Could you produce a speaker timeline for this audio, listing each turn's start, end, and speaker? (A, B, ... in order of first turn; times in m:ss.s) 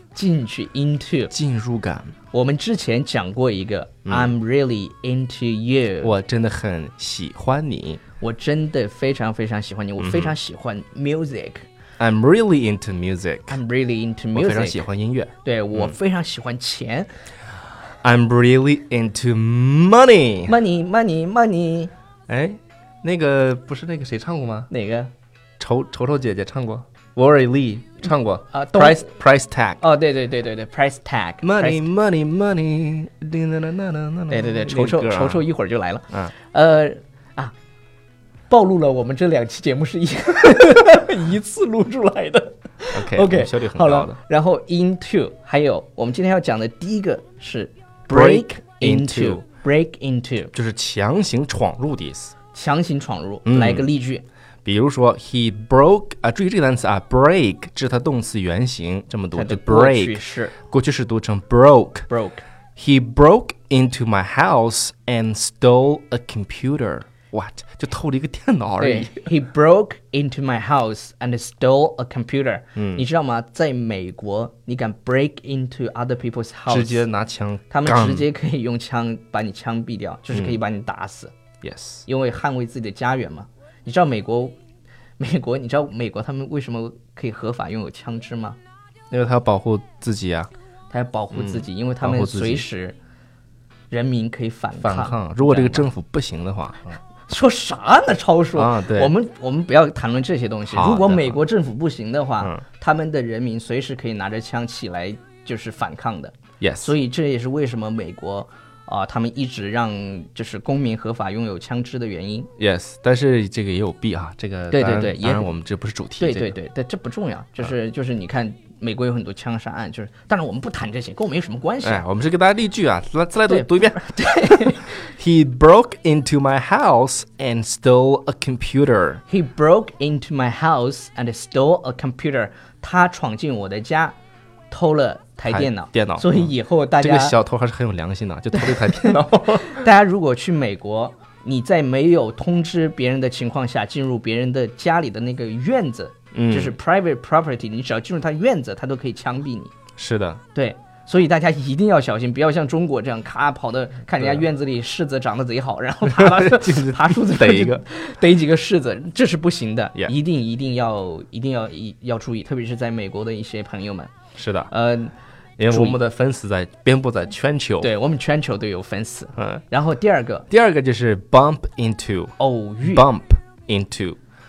0:00.1-0:01.3 A
0:01.3-0:02.1 B
0:02.3-0:06.1 A
0:04.0-0:04.3 B
0:06.0-0:08.0 B
0:08.2-0:11.6 A
0:10.0-0:10.3 B
0:12.0-0:13.6 B
0:13.5-0:14.8 A
0:14.3-0:15.9 B
0:15.4-0:17.1 A
0:18.0-0:20.6 B
0:20.4-0:21.9 A
0:22.3-0:24.7 B
0:24.7-0:25.1 A
0:25.6-0:29.8 B
0:28.5-0:29.1 A
0:29.8-0:31.8 A
0:31.4-0:35.4 B
0:34.3-0:37.5 A
0:38.5-0:50.5 A
0:42.9-0:44.2 B
0:48.1-0:49.4 B
0:50.5-0:52.3 B
0:52.5-0:54.2 A
0:53.4-0:53.9 B
0:54.6-1:02.1 B
0:59.3-1:00.6 A
1:02.1-1:02.4 A
1:02.8-1:09.2 B
1:08.8-1:17.0 A
1:12.8-1:13.0 B
1:16.7-1:18.3 B
1:17.7-1:21.3 A
1:21.6-1:22.0 B
1:22.0-1:24.6 A
1:25.2-1:28.6 A
1:29.1-1:30.5 B
1:30.9-1:33.0 A
1:31.3-1:32.6 B
1:33.9-1:35.9 A
1:34.8-1:37.0 B
1:37.3-1:52.5 A
1:38.5-1:39.1 B
1:40.7-1:41.4 B
1:46.6-1:46.9 B
1:52.6-1:56.5 B
1:54.7-1:55.5 A
1:56.2-2:02.0 A
2:01.8-2:09.2 B
2:03.5-2:05.0 A
2:09.3-2:14.1 A
2:14.7-2:17.4 A
2:15.5-2:19.8 B
2:18.5-2:29.7 A
2:26.3-2:26.8 B
2:30.0-2:30.4 B
2:30.5-2:44.1 A
2:36.0-2:37.8 B
2:44.4-2:44.7 B
2:44.7-2:45.1 A
2:45.6-2:47.9 B
2:45.7-2:46.0 A
2:47.8-2:50.4 A
2:49.4-2:49.6 B
2:50.5-2:54.2 B
2:52.4-2:53.0 A